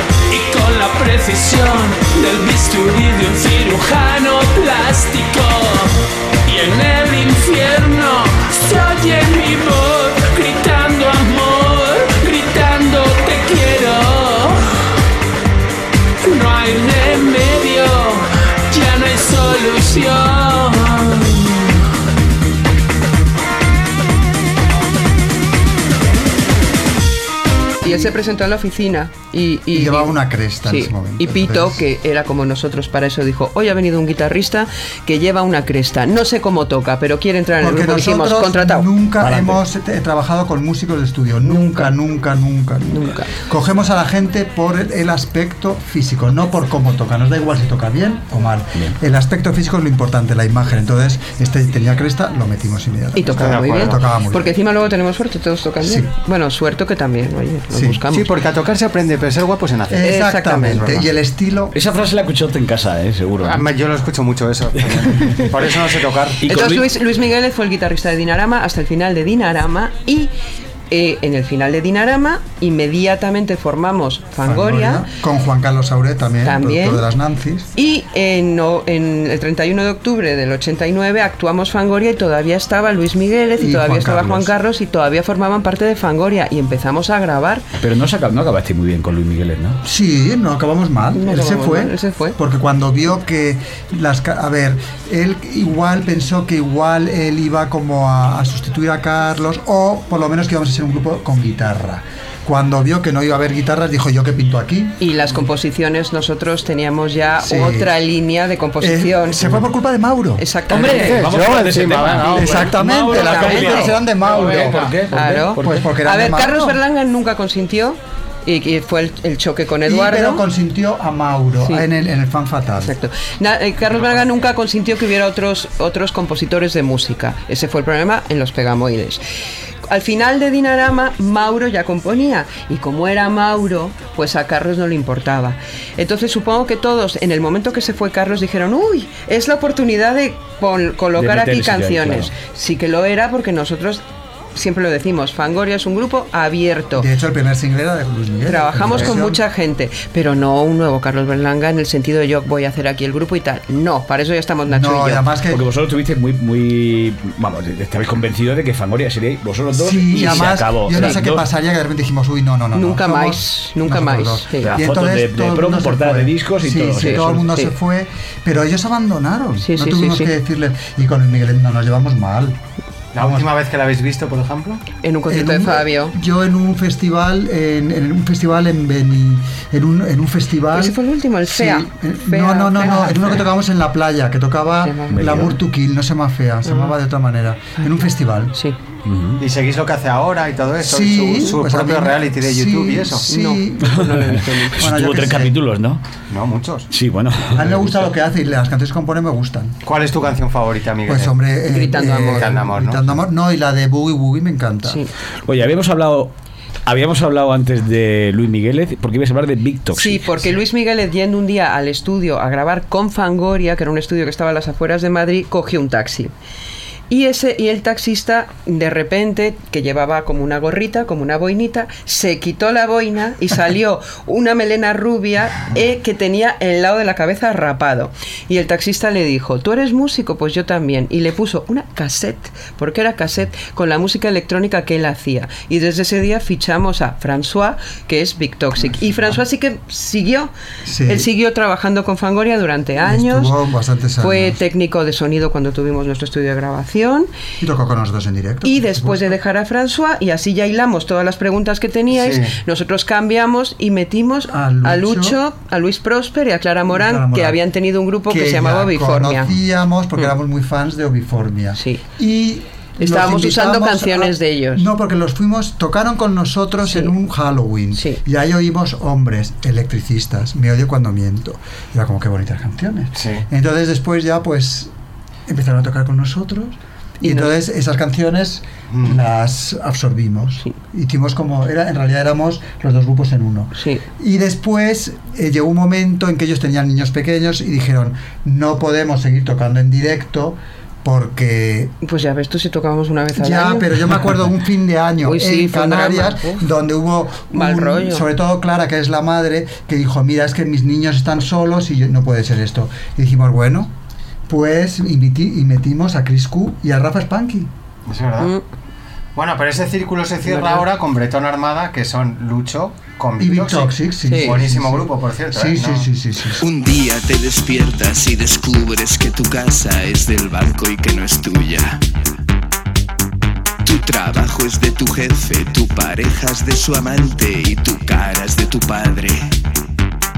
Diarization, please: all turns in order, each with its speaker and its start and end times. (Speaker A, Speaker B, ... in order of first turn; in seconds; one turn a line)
Speaker A: 0.3-14.8
Speaker A: 16.2-21.9
Speaker B: 27.8-38.9
Speaker C: 29.7-31.8
Speaker C: 37.6-54.5
Speaker D: 39.2-39.6
Speaker B: 41.4-41.9
Speaker B: 42.9-43.3
Speaker B: 53.1-58.3
Speaker E: 53.3-54.0
Speaker C: 55.8-56.1
Speaker C: 57.7-58.0
Speaker E: 58.1-61.1
Speaker C: 59.9-61.8
Speaker B: 60.0-60.8
Speaker D: 61.7-63.6
Speaker E: 63.4-66.5
Speaker D: 65.1-65.5
Speaker D: 66.4-66.9
Speaker B: 66.4-70.3
Speaker B: 70.9-75.1
Speaker C: 74.4-77.7
Speaker B: 76.4-77.0
Speaker B: 77.8-87.6
Speaker C: 83.6-84.5
Speaker D: 87.8-89.8
Speaker C: 89.8-105.0
Speaker B: 91.1-92.4
Speaker B: 105.0-109.4
Speaker C: 107.4-107.9
Speaker C: 108.8-110.4
Speaker E: 109.4-109.6
Speaker B: 110.4-111.2
Speaker E: 110.7-112.7
Speaker D: 110.7-115.9
Speaker C: 112.3-114.9
Speaker B: 113.2-113.8
Speaker B: 115.1-120.4
Speaker C: 115.5-116.8
Speaker C: 119.8-122.9
Speaker B: 122.8-129.2
Speaker B: 129.8-144.0
Speaker D: 141.2-142.3
Speaker B: 144.5-147.1
Speaker C: 146.9-149.4
Speaker B: 148.5-155.3
Speaker C: 154.7-155.7
Speaker D: 155.5-161.4
Speaker C: 159.8-172.6
Speaker B: 160.2-160.4
Speaker B: 162.7-164.7
Speaker D: 164.6-167.4
Speaker B: 167.0-167.7
Speaker B: 169.6-170.3
Speaker E: 173.1-174.8
Speaker C: 173.2-173.5
Speaker B: 175.0-176.1
Speaker C: 175.3-188.5
Speaker B: 180.7-183.3
Speaker B: 184.8-185.5
Speaker D: 185.1-185.5
Speaker B: 186.7-186.9
Speaker D: 189.0-189.4
Speaker E: 189.4-193.3
Speaker C: 190.8-195.6
Speaker B: 193.3-194.8
Speaker D: 194.1-196.0
Speaker E: 196.3-196.9
Speaker D: 196.9-197.9
Speaker C: 197.5-199.8
Speaker E: 199.8-201.3
Speaker C: 201.1-205.0
Speaker B: 201.7-202.5
Speaker E: 202.1-203.2
Speaker D: 205.4-206.3
Speaker D: 206.8-210.3
Speaker B: 209.9-216.3
Speaker B: 217.1-240.5
Speaker C: 240.8-241.3
Speaker B: 241.1-243.6
Speaker C: 243.0-244.6
Speaker B: 244.2-247.3
Speaker C: 247.6-249.3
Speaker B: 248.6-259.5
Speaker E: 252.1-252.5
Speaker C: 254.5-255.4
Speaker C: 256.9-257.6
Speaker C: 258.3-274.9
Speaker B: 263.0-264.9
Speaker B: 266.9-267.1
Speaker B: 267.9-268.2
Speaker E: 273.1-273.4
Speaker C: 275.5-291.9
Speaker B: 277.2-277.6
Speaker E: 278.9-279.1
Speaker B: 283.8-284.0
Speaker B: 292.0-293.9
Speaker C: 293.4-303.9
Speaker B: 295.2-296.6
Speaker B: 297.5-298.3
Speaker C: 304.5-307.7
Speaker E: 308.1-308.5
Speaker E: 309.4-316.1
Speaker B: 310.4-310.8
Speaker C: 313.4-316.6
Speaker B: 314.3-314.6
Speaker F: 316.6-322.0
Speaker F: 323.8-329.5